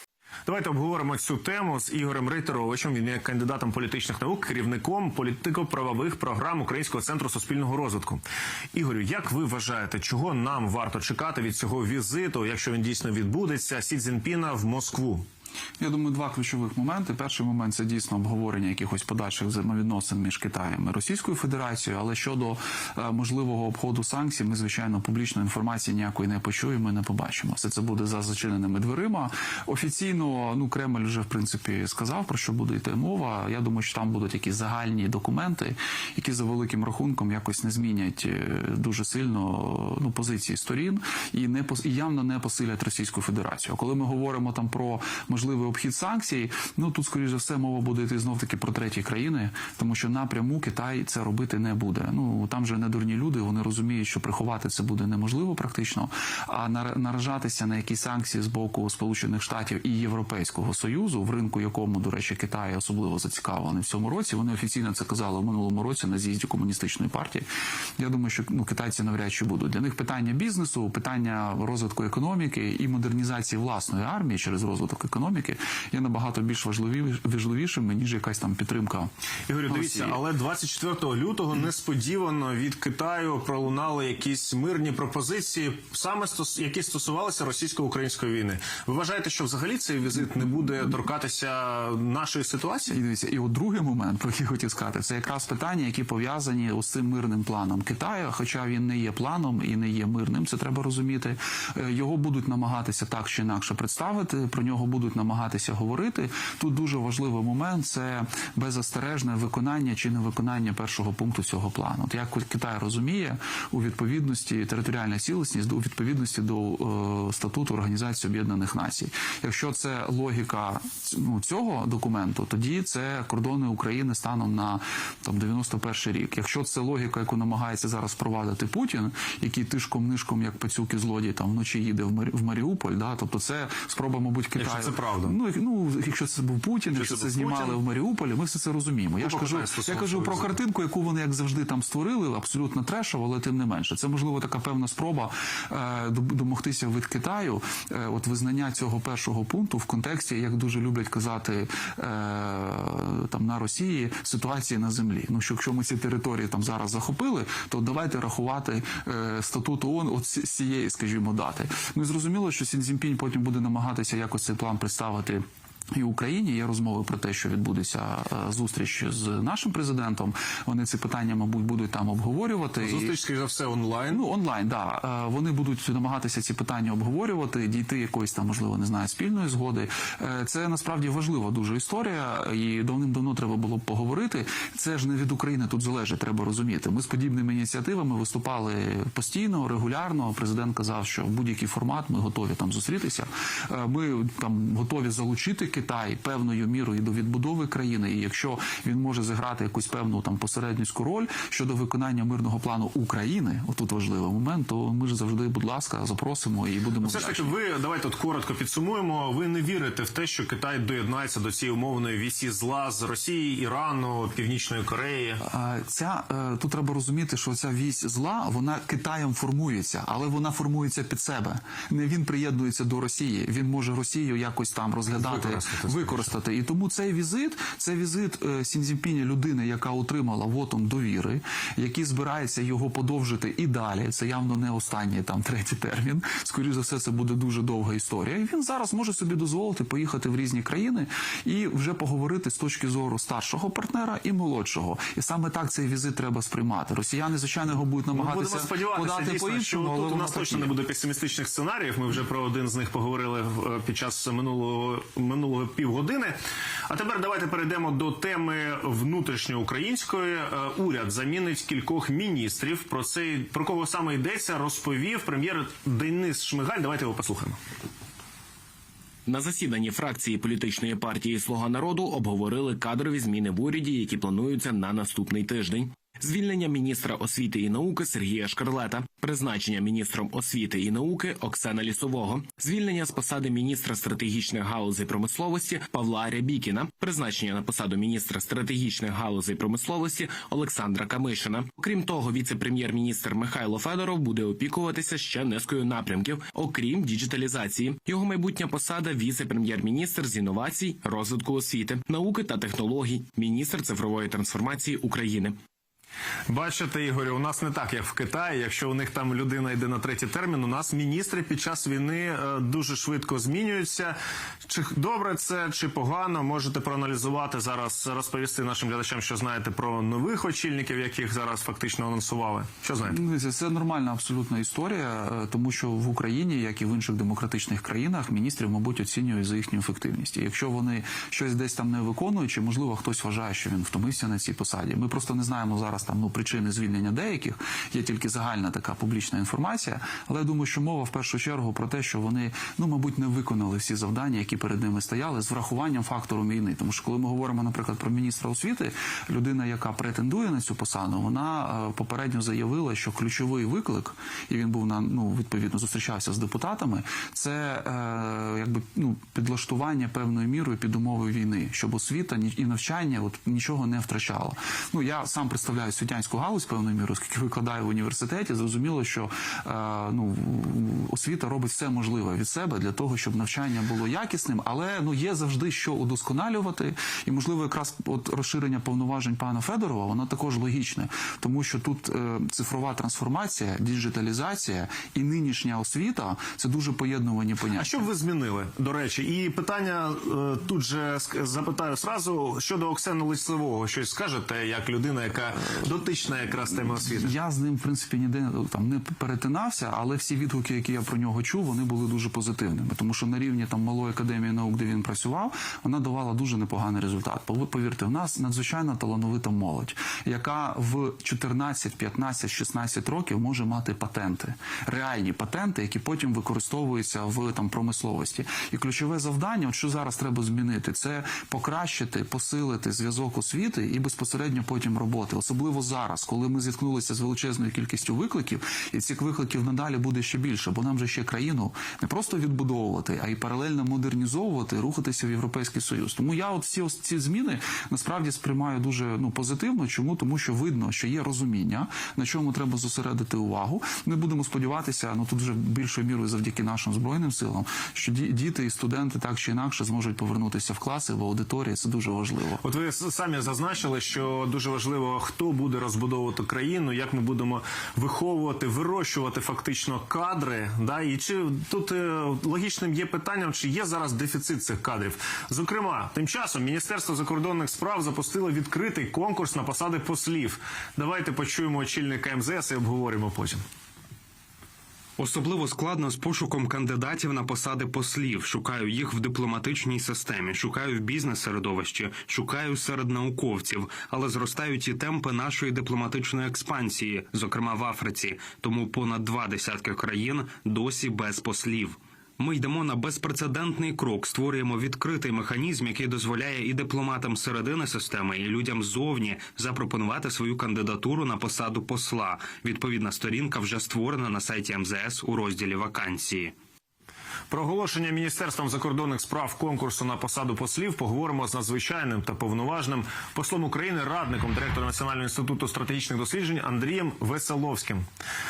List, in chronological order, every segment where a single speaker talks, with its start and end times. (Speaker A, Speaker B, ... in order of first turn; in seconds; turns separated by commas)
Speaker A: 0.5-8.2, Speaker A: 8.7-15.2, Speaker B: 15.8-67.5, Speaker B: 68.0-79.1, Speaker A: 79.5-93.0, Speaker B: 79.7-80.2, Speaker B: 92.9-165.4, Speaker A: 134.6-135.4, Speaker A: 136.9-137.8, Speaker A: 139.2-140.6, Speaker B: 165.9-173.1, Speaker A: 172.8-174.2, Speaker B: 174.1-207.5, Speaker A: 207.0-215.4, Speaker B: 215.5-250.7, Speaker A: 225.1-226.3, Speaker A: 248.1-256.4, Speaker A: 256.9-267.6, Speaker C: 269.3-305.6, Speaker A: 306.5-314.1, Speaker A: 314.7-323.2, Speaker B: 323.1-388.0, Speaker A: 387.8-397.3, Speaker B: 397.0-452.6, Speaker A: 452.6-473.6, Speaker D: 475.2-506.5, Speaker A: 507.5-518.0